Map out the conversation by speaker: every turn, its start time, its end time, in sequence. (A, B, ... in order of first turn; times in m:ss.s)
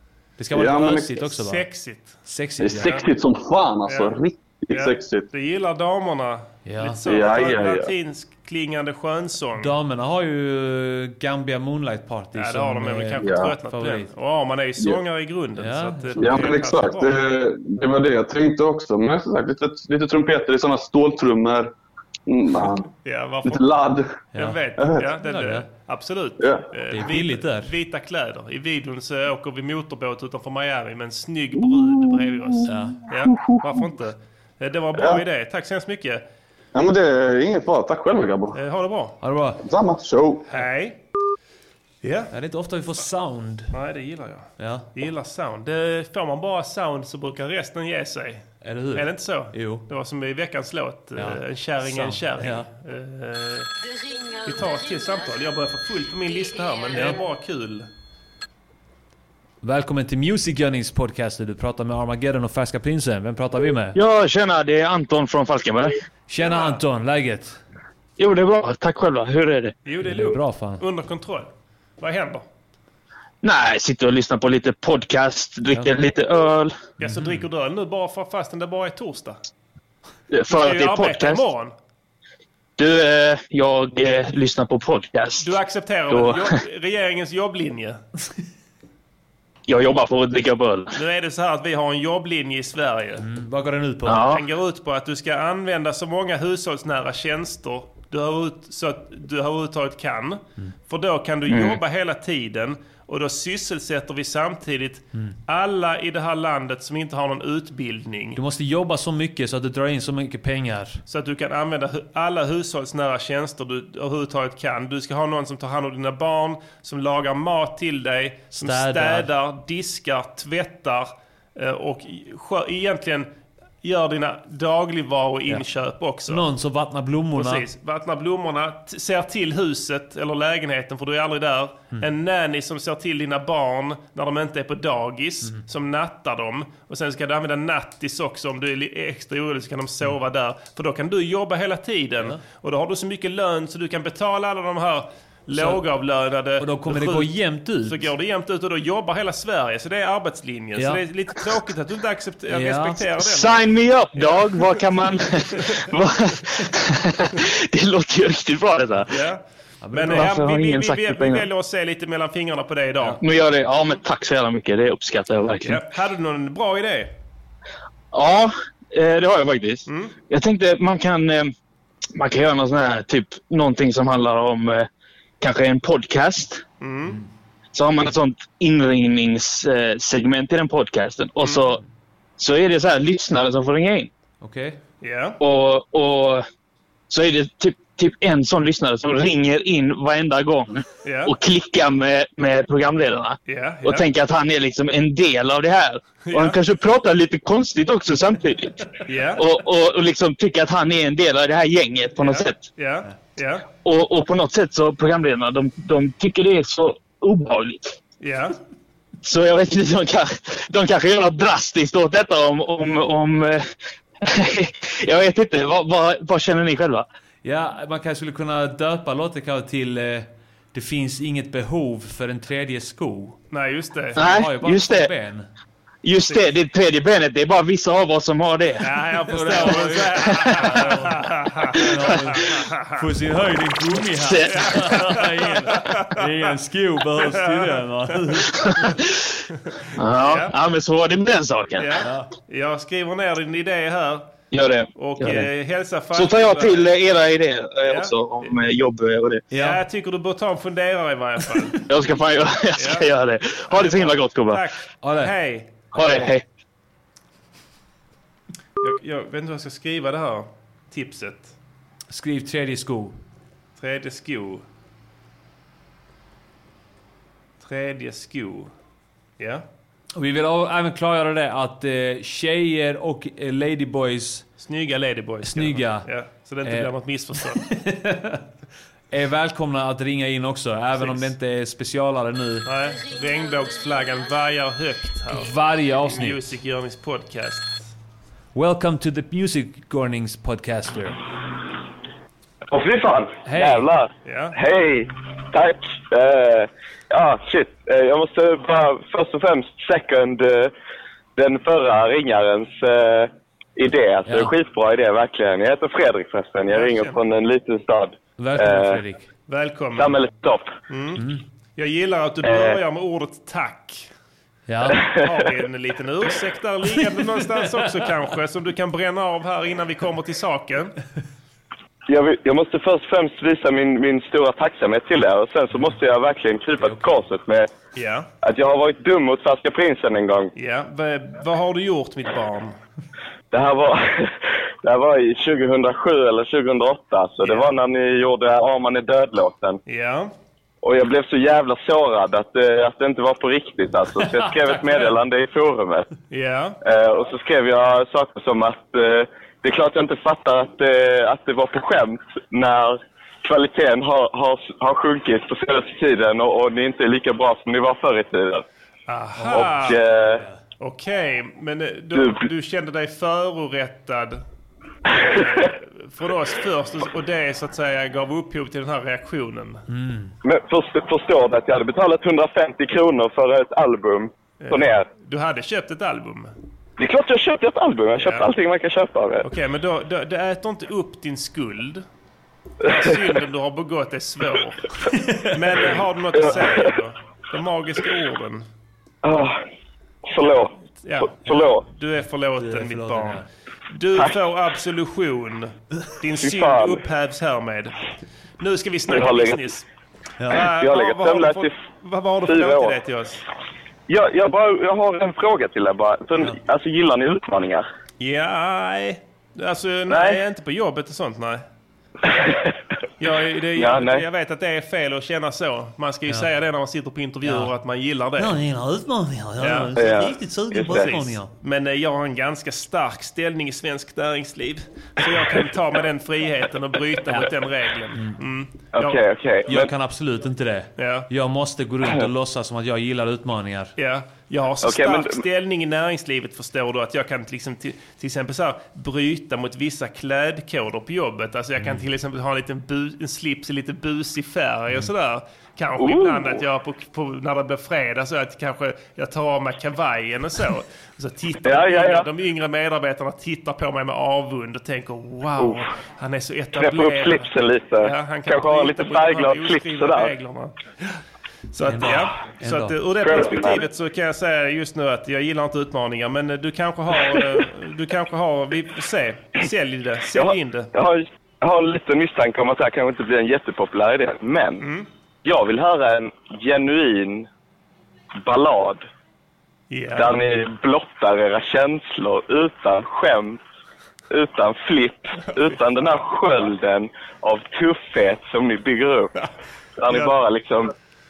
0:00.4-0:01.6 A
0:00.5-0:01.2 B
0:01.4-0:02.2 C
0:02.2-0:03.0 A
0:02.6-0:05.3 B
0:03.9-0:04.2 C
0:04.7-0:09.7 C
0:06.6-0:07.0 A
0:07.0-0:07.9 B
0:09.6-0:14.1 A
0:12.3-0:17.1 C
0:13.2-0:13.6 B
0:15.6-0:16.6 A
0:16.2-0:21.7 B
0:22.3-0:22.9 B
0:23.0-0:23.6 C
0:23.4-0:24.1 B
0:24.3-0:24.6 A
0:24.3-0:36.2 C
0:24.8-0:25.0 B
0:25.2-0:25.7 A
0:26.4-0:26.6 B
0:26.9-0:27.7 A
0:31.9-0:32.7 B
0:32.6-0:33.0 A
0:33.2-0:33.8 B
0:34.9-0:35.2 B
0:36.7-0:38.6 B
0:38.5-0:39.2 C
0:39.2-0:39.6 A
0:39.6-0:40.4 B
0:40.5-0:41.0 C
0:42.0-0:42.3 C
0:42.3-0:43.7 A
0:43.7-0:53.7 C
0:44.6-0:44.9 A
0:48.6-0:49.8 A
0:51.2-0:52.7 A
0:54.4-0:57.9 C
0:56.9-0:57.2 A
0:59.6-1:04.0 A
1:03.9-1:05.9 D
1:06.3-1:07.6 A
1:06.4-1:06.8 C
1:08.2-1:09.7 D
1:09.8-1:11.5 C
1:10.0-1:10.8 A
1:12.0-1:12.4 C
1:13.4-1:16.7 D
1:17.0-1:19.4 C
1:17.0-1:17.4 A
1:20.3-1:21.4 D
1:20.5-1:21.7 C
1:22.8-1:25.5 D
1:25.4-1:28.0 C
1:26.1-1:26.5 D
1:29.7-1:30.9 D
1:30.9-1:33.2 C
1:33.2-1:34.3 A
1:34.0-1:34.4 D
1:34.2-1:48.4 C
1:41.5-1:41.8 D
1:48.4-1:51.0 A
1:51.1-2:03.3 C
1:58.5-1:59.3 A
2:03.8-2:06.4 C
2:06.3-2:07.6 A
2:07.3-2:27.3 C
2:25.5-2:25.8 A
2:26.6-2:28.1 A
2:27.8-2:34.8 C
2:30.8-2:31.0 A
2:32.5-2:33.1 A
2:33.2-2:39.1 D
2:39.1-2:39.4 C
2:39.8-2:40.3 A
2:39.9-2:43.2 C
2:40.1-2:41.5 D
2:43.2-2:45.8 D
2:45.6-2:47.1 C
2:48.1-2:51.5 D
2:49.8-2:50.1 C
2:52.2-2:54.9 D
2:55.4-2:56.6 D
2:56.8-2:57.2 C
2:57.7-3:01.8 D
3:02.4-3:04.1 D
3:04.4-3:04.8 A
3:05.0-3:05.4 C
3:05.4-3:06.4 D
3:07.1-3:18.8 D
3:11.0-3:11.3 C
3:13.4-3:14.1 C
3:16.3-3:16.6 C
3:19.0-3:19.5 C
3:19.4-3:22.6 D
3:22.2-3:23.6 C
3:23.8-3:27.9 D
3:28.2-3:28.6 C
3:29.2-3:33.7 D
3:34.2-3:37.0 D
3:37.4-3:43.4 A
3:43.5-3:44.2 C
3:44.2-3:45.1 D
3:44.2-3:45.5 A
3:46.0-3:48.8 D
3:46.2-3:46.6 C
3:48.8-3:53.0 C
3:49.3-3:58.7 A
3:50.4-3:50.6 D
3:54.2-3:54.6 D
3:54.5-3:56.5 C
3:57.2-3:58.1 C
3:58.6-3:59.2 D
3:59.6-4:00.5 C
4:00.0-4:01.9 D
4:01.8-4:04.3 C
4:02.0-4:02.3 A
4:04.5-4:05.5 D
4:04.9-4:06.9 C
4:06.1-4:09.4 D
4:07.8-4:08.6 C
4:09.5-4:09.8 A
4:09.5-4:11.8 C
4:11.9-4:14.6 D
4:12.8-4:13.1 C
4:13.7-4:16.2 C
4:15.0-4:15.3 A
4:15.9-4:16.4 D
4:18.8-4:21.5 C
4:22.1-4:23.2 A
4:23.8-4:24.6 C
4:27.6-4:28.7 C
4:29.4-4:29.6 C
4:30.1-4:34.5 A
4:34.6-4:37.6 C
4:35.4-4:36.1 A
4:36.6-4:38.4 A
4:39.1-4:42.7 A
4:41.0-4:41.3 C
4:42.6-4:45.5 C
4:45.4-4:46.6 A
4:46.1-4:47.9 C
4:48.5-4:51.2 A
4:52.7-5:00.7 E
4:53.4-4:53.9 A
4:54.2-4:54.6 C
5:01.4-5:09.0 E
5:04.2-5:04.5 A
5:06.7-5:07.2 C
5:08.4-5:09.3 A
5:09.5-5:10.2 C
5:10.0-5:10.7 E
5:10.9-5:14.1 C
5:11.2-5:11.4 A
5:14.7-5:15.0 A
5:14.9-5:20.9 C
5:22.1-5:27.7 E
5:26.8-5:27.1 A
5:27.9-5:28.3 C
5:28.4-5:30.5 E
5:30.5-5:32.8 C
5:33.5-5:39.8 E
5:37.4-5:37.7 C
5:39.8-5:40.3 C
5:40.8-5:46.1 E
5:44.2-5:45.1 A
5:46.3-5:46.8 C
5:46.8-5:58.6 E
5:59.1-6:00.0 C
5:59.3-6:00.6 A
5:59.8-6:00.4 E
6:00.8-6:04.4 C
6:02.1-6:02.4 E
6:05.1-6:09.8 C
6:05.1-6:05.6 E
6:09.9-6:10.3 A
6:10.4-6:15.0 E
6:14.6-6:16.5 C
6:17.0-6:19.4 E
6:18.2-6:18.5 C
6:19.4-6:22.0 C
6:22.8-6:24.9 C
6:25.1-6:25.5 A
6:25.5-6:28.7 C
6:26.4-6:26.9 E
6:29.2-6:29.6 E
6:30.3-6:30.7 E
6:31.0-6:38.0 C
6:31.4-6:31.8 E
6:32.6-6:33.4 A
6:36.4-6:37.0 E
6:38.6-6:39.8 C
6:39.1-6:39.6 E
6:40.4-6:40.7 A
6:40.5-6:43.4 C
6:40.8-6:41.7 E
6:42.4-6:43.0 E
6:44.1-6:47.8 E
6:48.2-6:51.6 C
6:50.1-6:50.4 E
6:52.3-6:52.7 E
6:53.2-6:58.5 C
6:53.8-6:54.2 E
6:57.4-6:57.7 A
6:58.4-7:01.5 A
6:59.6-7:00.0 C
7:00.0-7:01.0 E
7:00.8-7:09.2 C
7:08.9-7:09.9 E
7:09.7-7:13.9 A
7:11.0-7:11.3 C
7:14.0-7:40.7 C
7:14.8-7:15.4 E
7:26.0-7:26.6 E
7:31.6-7:32.2 E
7:36.8-7:40.3 E
7:41.7-7:50.9 C
7:41.8-7:43.0 A
7:43.2-7:43.8 E
7:50.4-7:54.8 E
7:54.8-7:55.1 C
7:55.4-7:57.5 E
7:58.4-7:59.0 E
7:59.9-8:00.4 C
8:00.2-8:03.6 E
8:04.3-8:09.3 E
8:10.0-8:10.9 E
8:10.1-8:10.3 C